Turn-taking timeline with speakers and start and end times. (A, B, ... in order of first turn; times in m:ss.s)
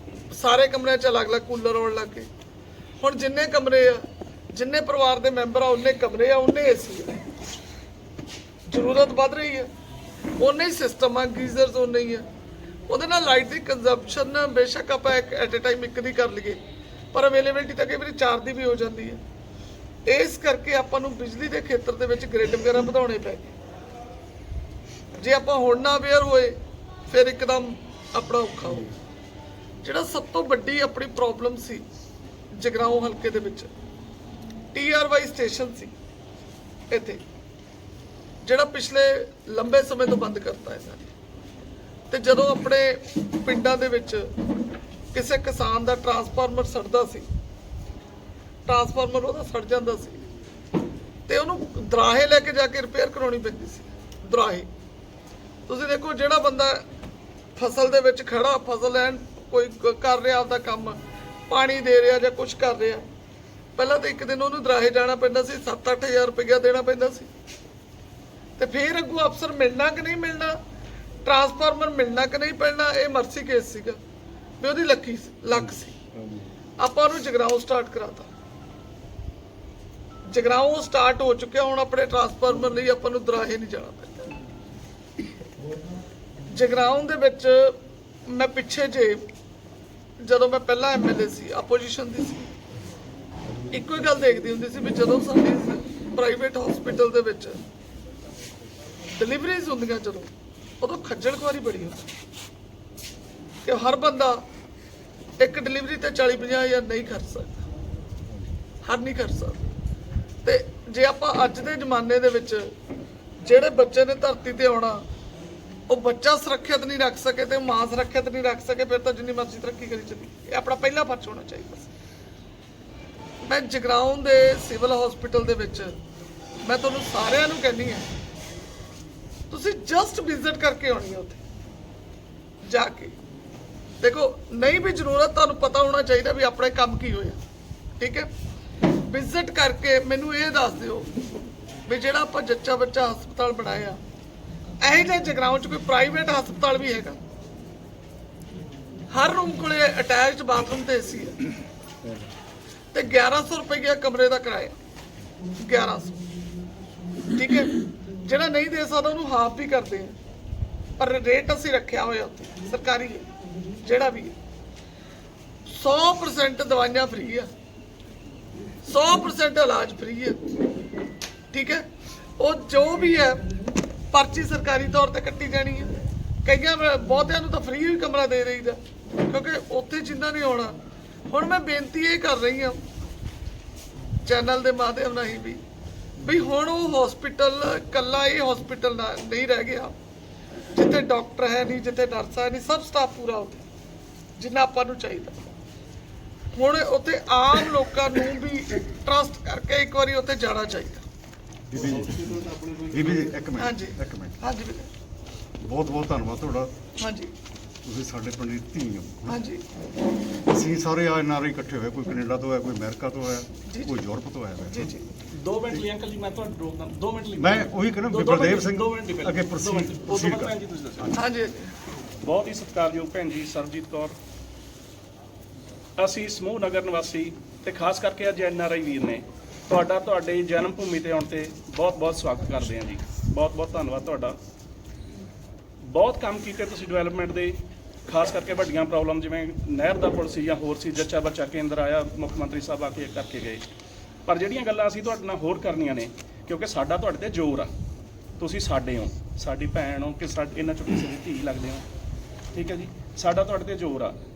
0:00.3-0:02.3 A
0:03.0-0:07.2 A
0:08.7-0:09.7 A
0:10.4-0:12.2 A
0:12.9-0:16.6 A
0:17.1-0:19.2 A
0:20.0-0:23.5 A
0:25.2-0:26.6 A
0:27.1-0:28.9 A
0:29.8-0:31.9 A
0:32.6-0:33.7 A
0:34.7-0:36.0 A
0:36.9-0:37.2 A
0:38.4-0:41.1 A
0:42.1-0:44.3 A
0:45.1-0:47.3 A
0:48.7-0:50.2 A
0:51.3-0:54.7 A
0:55.7-0:56.8 A
0:57.6-1:03.0 A
1:03.8-1:07.3 A
1:08.6-1:10.6 A
1:11.2-1:14.0 A
1:14.6-1:16.0 A
1:16.8-1:18.3 A
1:20.3-1:24.3 A
1:26.5-1:29.2 A
1:30.2-1:32.5 A
1:33.7-1:37.6 A
1:39.1-1:42.1 A
1:43.6-1:44.4 A
1:45.4-1:47.6 A
1:48.8-1:49.6 A
1:50.4-1:52.7 A
1:53.4-1:55.0 A
1:55.9-2:01.9 A
2:03.4-2:06.0 A
2:06.6-2:08.0 A
2:09.5-2:11.4 A
2:12.6-2:13.2 A
2:14.0-2:17.4 A
2:18.0-2:18.3 A
2:19.1-2:21.1 A
2:21.9-2:24.0 A
2:24.8-2:27.2 A
2:29.1-2:31.4 A
2:32.9-2:34.8 A
2:35.6-2:36.2 A
2:37.3-2:40.2 A
2:41.0-2:43.3 A
2:43.8-2:44.4 A
2:45.7-2:47.5 A
2:48.8-2:50.4 A
2:51.5-2:51.8 A
2:52.4-2:53.5 A
2:54.1-2:55.9 A
2:56.4-3:00.8 A
3:01.3-3:02.8 A
3:04.2-3:05.6 A
3:06.2-3:10.0 A
3:10.7-3:13.6 A
3:14.4-3:15.4 A
3:16.5-3:21.0 A
3:21.7-3:24.3 B
3:23.6-3:24.9 A
3:25.6-3:26.7 B
3:27.0-3:27.3 A
3:27.8-3:29.3 B
3:29.3-3:29.6 A
3:30.5-3:34.9 B
3:33.7-3:34.0 A
3:34.6-3:35.0 A
3:35.3-3:41.1 C
3:37.4-3:40.4 B
3:41.1-3:41.7 A
3:42.2-3:44.2 C
3:46.0-3:54.4 C
3:55.9-3:57.6 C
3:58.1-4:03.6 C
4:04.3-4:07.7 C
4:08.4-4:11.8 C
4:12.5-4:14.2 C